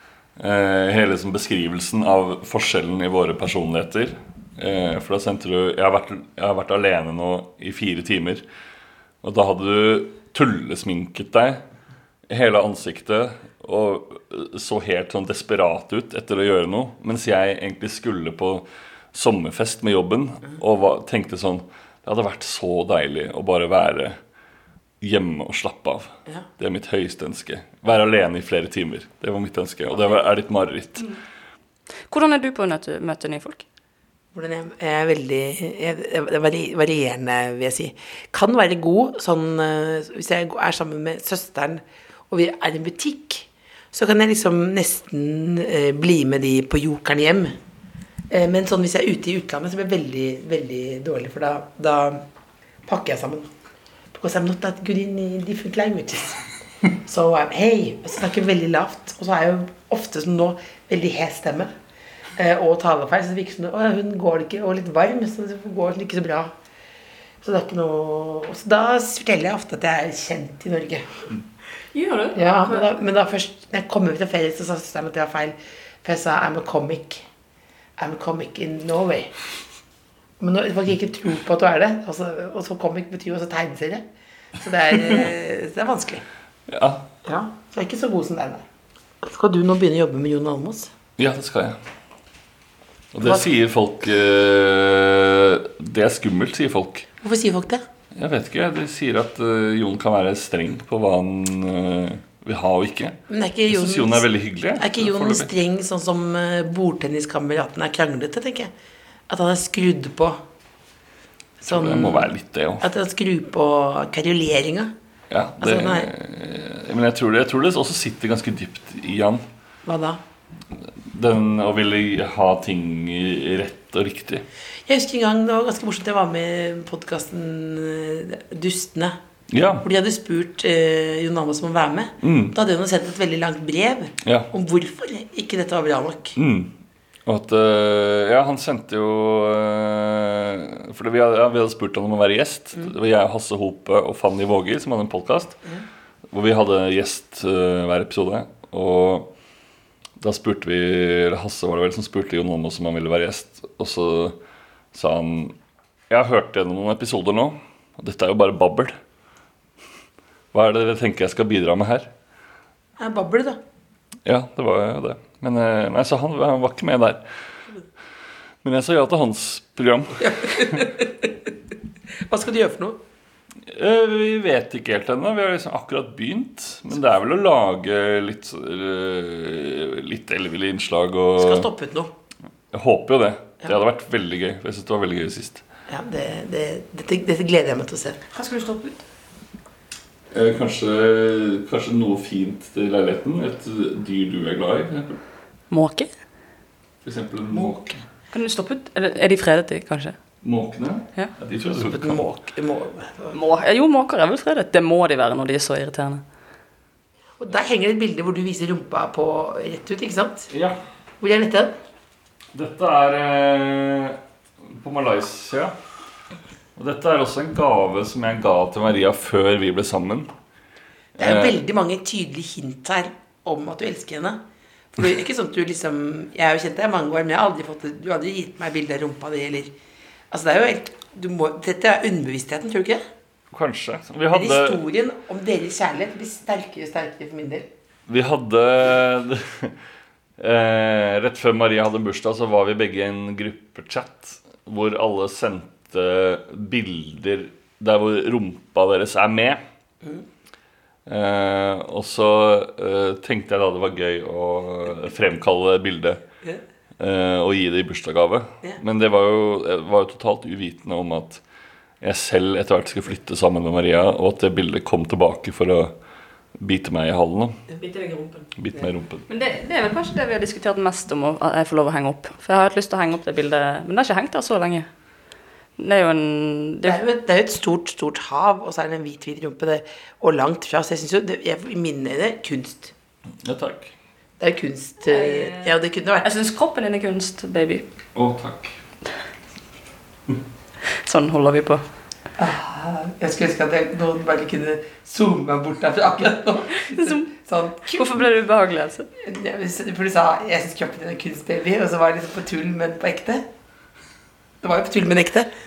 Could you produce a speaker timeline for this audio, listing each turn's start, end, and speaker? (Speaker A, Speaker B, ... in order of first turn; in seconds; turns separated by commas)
Speaker A: 0.4-8.4, Speaker A: 9.2-11.6, Speaker A: 12.3-24.2, Speaker A: 25.0-31.1, Speaker B: 32.1-33.6, Speaker C: 34.3-47.6, Speaker C: 48.3-52.2, Speaker C: 52.9-53.5, Speaker C: 54.1-56.5, Speaker C: 57.0-61.7, Speaker C: 62.4-66.5, Speaker C: 67.4-71.2, Speaker B: 71.9-72.9, Speaker C: 72.3-77.2, Speaker C: 78.0-79.3, Speaker C: 80.4-84.0, Speaker C: 84.6-86.2, Speaker A: 86.7-87.1, Speaker C: 87.2-88.6, Speaker C: 89.2-90.9, Speaker A: 91.2-91.8, Speaker A: 93.1-97.1, Speaker C: 97.2-97.8, Speaker A: 98.2-103.2, Speaker C: 103.3-108.7, Speaker A: 103.7-105.5, Speaker C: 109.3-110.4, Speaker C: 111.6-112.3, Speaker A: 111.7-112.8, Speaker C: 112.8-114.9, Speaker A: 115.3-119.5, Speaker C: 115.6-116.1, Speaker C: 119.9-120.2, Speaker A: 121.1-124.5, Speaker C: 124.9-129.2, Speaker A: 129.5-129.9, Speaker C: 129.8-136.4, Speaker A: 132.2-132.6, Speaker A: 134.2-134.5, Speaker A: 136.4-136.7, Speaker A: 137.3-145.6, Speaker A: 146.3-149.3, Speaker A: 150.2-154.4, Speaker A: 154.9-155.6, Speaker A: 156.1-159.0, Speaker A: 160.5-162.1, Speaker C: 163.0-163.6, Speaker A: 164.3-167.2, Speaker A: 168.6-170.8, Speaker C: 170.2-171.5, Speaker C: 172.3-173.0, Speaker A: 173.7-181.7, Speaker C: 181.4-182.1, Speaker A: 182.7-185.6, Speaker C: 185.9-188.2, Speaker B: 188.3-189.0, Speaker A: 190.3-195.2, Speaker B: 195.7-196.1, Speaker A: 197.1-198.0, Speaker C: 197.5-197.8, Speaker B: 198.3-200.2, Speaker A: 200.4-202.2, Speaker C: 201.7-203.3, Speaker B: 203.3-206.2, Speaker C: 207.4-210.5, Speaker A: 210.5-210.8, Speaker C: 211.2-211.7, Speaker A: 212.5-214.2, Speaker A: 214.7-215.7, Speaker A: 216.8-220.3, Speaker A: 221.2-221.6, Speaker C: 221.2-224.4, Speaker C: 224.9-229.8, Speaker C: 230.3-233.0, Speaker A: 233.5-234.8, Speaker C: 234.3-237.7, Speaker A: 238.1-239.7, Speaker A: 240.4-249.6, Speaker A: 251.1-256.2, Speaker A: 257.0-261.4, Speaker A: 262.0-265.9, Speaker A: 266.6-267.6, Speaker B: 267.8-268.5, Speaker A: 268.6-269.2, Speaker B: 269.3-274.9, Speaker B: 275.8-277.0, Speaker C: 276.8-282.9, Speaker A: 283.4-283.9, Speaker C: 284.4-286.3, Speaker B: 285.1-287.9, Speaker A: 288.1-288.8, Speaker B: 291.0-291.8, Speaker C: 292.4-298.2, Speaker B: 296.8-297.3, Speaker B: 297.9-299.1, Speaker C: 299.2-303.4, Speaker C: 304.6-305.5